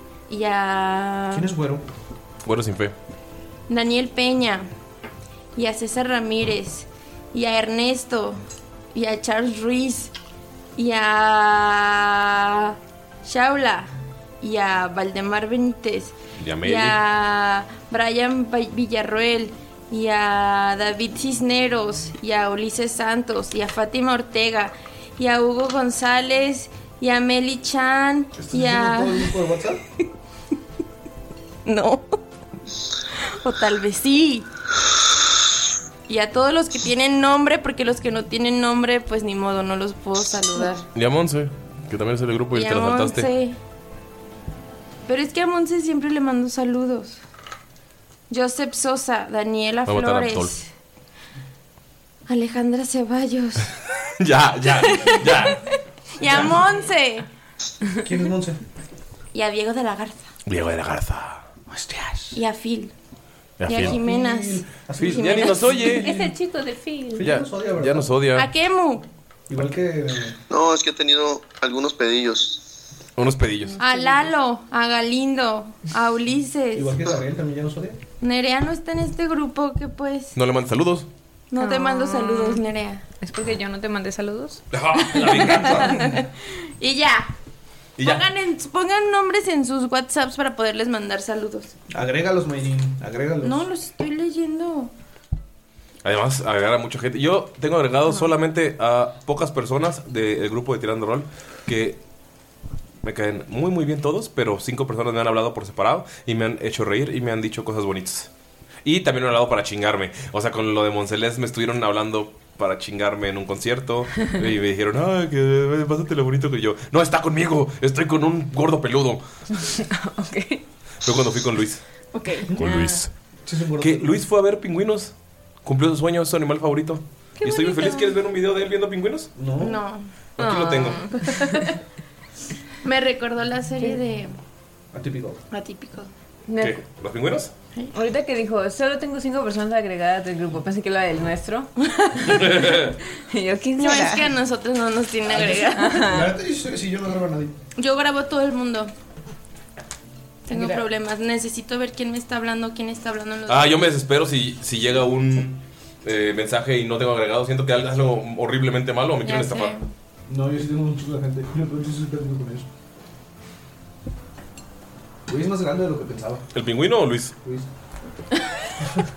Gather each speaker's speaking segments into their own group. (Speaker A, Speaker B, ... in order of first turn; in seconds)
Speaker A: 0.3-1.5, 3.7-4.7, 5.5-8.4, 8.9-10.1, 10.8-29.3, 31.6-32.2, 33.2-34.5, 36.1-40.9, 42.5-43.6, 45.1-47.2, 48.3-50.6, 52.3-53.7, 54.7-55.5, 56.2-57.2, 59.3-60.3, 62.3-62.9, 63.6-66.0, 68.3-69.0, 73.8-76.9, 78.2-80.4, 81.5-83.0, 85.0-87.3, 88.0-91.7, 93.4-94.9, 122.1-123.0, 129.6-130.1, 131.2-131.8, 132.8-134.3, 135.5-136.1, 143.7-146.1, 147.8-148.9, 150.5-153.9, 159.2-159.9
Speaker B: 1.3-1.8, 28.4-29.8, 56.2-56.6, 58.0-58.6, 61.7-62.4, 63.7-66.3, 67.1-68.2, 69.5-70.4, 76.7-78.0, 91.9-93.7, 123.5-124.2, 129.3-129.8, 134.9-135.4, 145.2-147.5, 160.3-162.7, 165.3-166.4, 167.4-167.7
Speaker C: 2.4-2.9, 16.4-17.0, 40.9-43.3, 49.9-50.5, 54.2-55.6, 60.5-61.4, 63.6-64.0, 65.0-66.1, 67.2-68.5, 73.2-73.8, 80.3-81.1, 84.7-86.1, 88.0-88.2, 96.0-102.0, 103.0-108.3, 108.8-119.2, 121.0-121.8, 122.6-123.1, 123.8-125.1, 125.6-129.3, 130.4-131.1, 136.5-137.5, 142.4-142.9, 153.5-159.7, 166.5-167.3
Speaker D: 66.0-67.2, 81.6-82.5, 83.2-84.6, 120.2-120.6, 127.7-128.0, 130.5-131.1, 138.0-141.7, 143.3-144.2
Speaker E: 70.5-72.7